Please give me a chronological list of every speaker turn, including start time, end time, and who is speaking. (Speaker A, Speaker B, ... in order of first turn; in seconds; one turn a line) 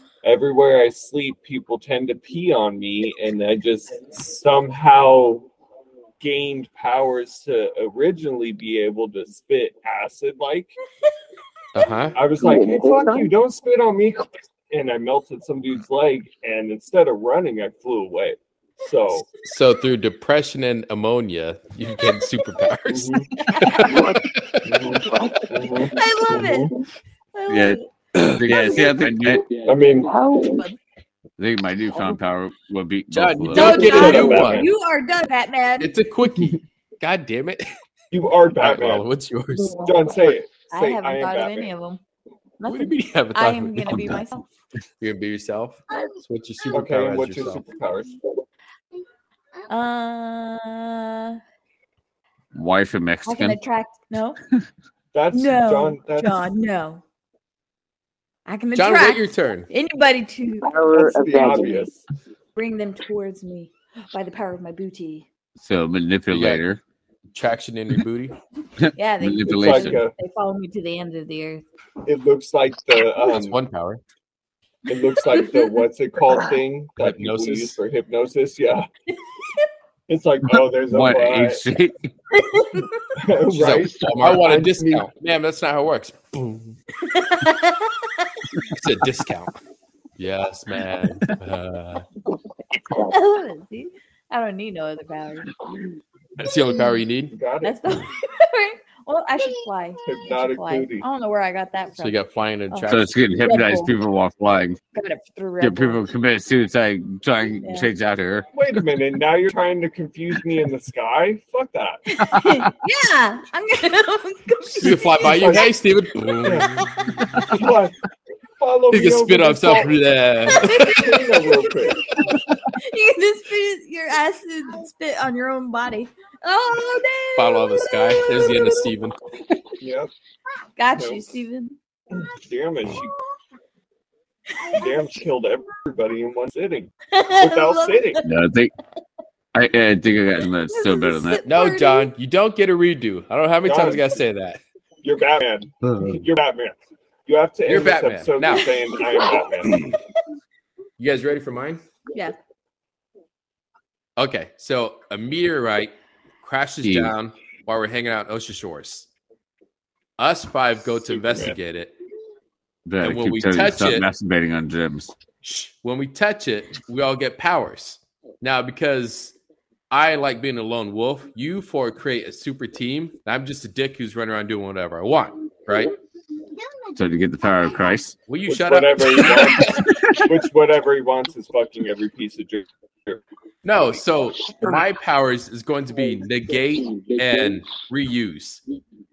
Speaker A: 0.2-5.5
Speaker A: 6.2-10.8
Speaker B: 11.8-12.2
Speaker A: 12.2-19.3
Speaker C: 12.4-13.3
Speaker B: 19.3-24.6
Speaker A: 22.9-23.2
Speaker D: 23.4-24.0
Speaker C: 23.8-24.2
Speaker A: 24.6-26.7
Speaker C: 25.0-26.4
Speaker D: 25.9-26.7
Speaker D: 27.4-27.8
Speaker E: 27.5-27.8
Speaker B: 28.2-29.3
Speaker E: 28.3-29.4
Speaker D: 28.6-28.9
Speaker A: 29.7-30.1
Speaker C: 30.0-30.7
Speaker E: 31.4-34.3
Speaker B: 33.1-34.7
Speaker A: 33.5-34.7
Speaker D: 33.5-35.9
Speaker B: 35.8-37.7
Speaker A: 38.1-39.0
Speaker B: 38.6-39.8
Speaker A: 39.8-41.7
Speaker D: 40.7-42.0
Speaker D: 42.6-44.5
Speaker B: 42.7-44.2
Speaker E: 43.9-44.2
Speaker B: 45.0-47.6
Speaker A: 46.7-48.1
Speaker D: 49.7-51.4
Speaker E: 52.5-53.6
Speaker D: 53.2-54.4
Speaker A: 55.1-56.5
Speaker D: 55.3-57.0
Speaker D: 58.5-60.7
Speaker B: 58.7-59.7
Speaker C: 60.6-61.9
Speaker A: 60.9-62.0
Speaker D: 62.6-65.3
Speaker E: 65.6-66.8
Speaker B: 66.3-66.7
Speaker B: 67.3-68.4
Speaker E: 68.8-70.0
Speaker D: 69.0-71.7
Speaker A: 69.5-70.1
Speaker A: 72.1-73.6
Speaker B: 73.3-74.0
Speaker A: 74.9-78.9
Speaker D: 75.3-75.6
Speaker B: 77.0-77.8
Speaker A: 80.1-81.6
Speaker E: 80.5-82.1
Speaker D: 82.4-82.9
Speaker A: 83.2-85.1
Speaker B: 83.5-86.8
Speaker D: 87.1-88.1
Speaker B: 88.8-89.6
Speaker B: 90.2-92.1
Speaker D: 93.1-95.6
Speaker B: 96.4-97.4
Speaker A: 97.3-97.8
Speaker D: 97.6-103.9
Speaker A: 100.0-101.1
Speaker B: 102.0-103.1
Speaker E: 102.9-104.8
Speaker D: 104.9-106.0
Speaker E: 105.6-108.5
Speaker D: 107.6-107.9
Speaker A: 108.5-112.0
Speaker D: 112.1-115.7
Speaker E: 112.3-112.6
Speaker B: 114.8-116.7
Speaker A: 114.8-115.7
Speaker A: 116.4-116.7
Speaker D: 116.6-117.4
Speaker A: 117.5-118.0
Speaker A: 118.6-119.9
Speaker B: 118.9-121.4
Speaker D: 120.5-128.8
Speaker A: 120.8-122.0
Speaker B: 127.4-129.2
Speaker A: 129.8-130.1
Speaker D: 130.8-131.8
Speaker A: 131.0-131.3
Speaker A: 132.4-133.2
Speaker A: 134.7-138.2
Speaker D: 137.1-138.2
Speaker E: 138.2-138.7
Speaker E: 139.5-141.4
Speaker D: 140.7-142.1
Speaker B: 141.5-144.6
Speaker A: 143.6-144.1
Speaker A: 145.0-149.9
Speaker B: 147.7-148.7
Speaker B: 151.0-151.8
Speaker B: 154.2-159.1
Speaker E: 156.8-157.1
Speaker B: 160.2-161.9
Speaker A: 161.1-161.6
Speaker E: 162.9-165.2
Speaker B: 163.0-164.1
Speaker B: 165.4-169.4
Speaker B: 169.9-175.9
Speaker E: 176.9-178.2
Speaker B: 178.3-180.2
Speaker A: 178.5-183.2
Speaker B: 183.6-188.6